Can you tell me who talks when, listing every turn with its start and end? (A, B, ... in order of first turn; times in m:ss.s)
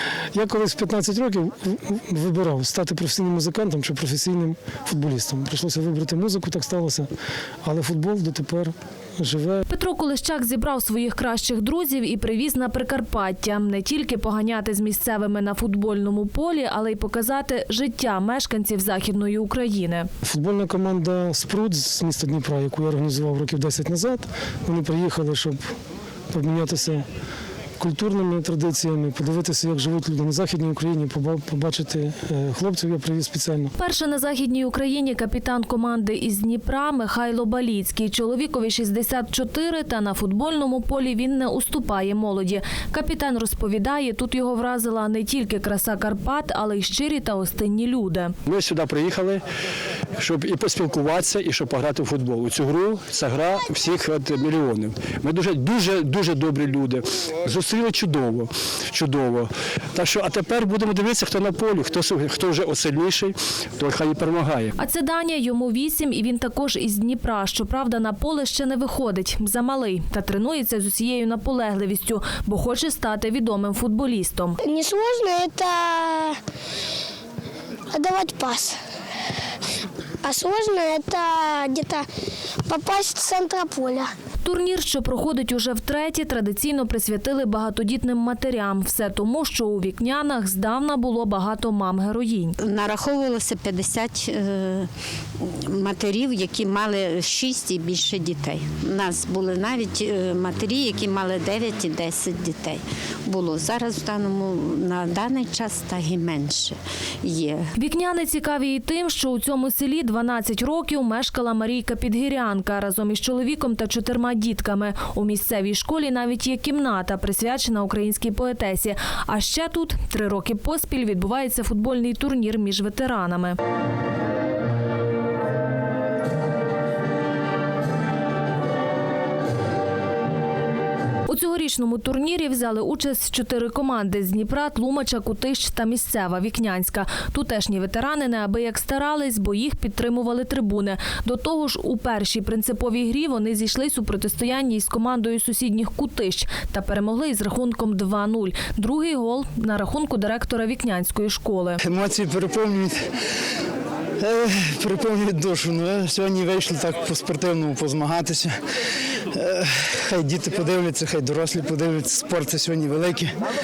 0:00.3-0:07.1 A
0:07.6-0:09.6 A
0:09.7-0:20.1 B
0:20.2-0:25.6 A
0:26.3-0:27.0 A
0:27.8-0:33.7 A
0:33.8-0:48.3 B
0:48.5-0:49.4 C
0:50.2-1:04.7 C
1:04.8-1:14.6 B
1:14.6-1:16.4 D
1:17.9-1:18.8 D
1:20.2-1:22.1 D
1:22.7-1:24.1 D
1:24.4-1:32.6 B
1:32.6-1:34.9 E
1:35.7-1:47.6 E
1:47.8-2:03.6 B
2:11.3-2:31.8 B
2:31.8-2:33.0 F
2:34.2-2:38.5 F
2:39.3-2:43.3 F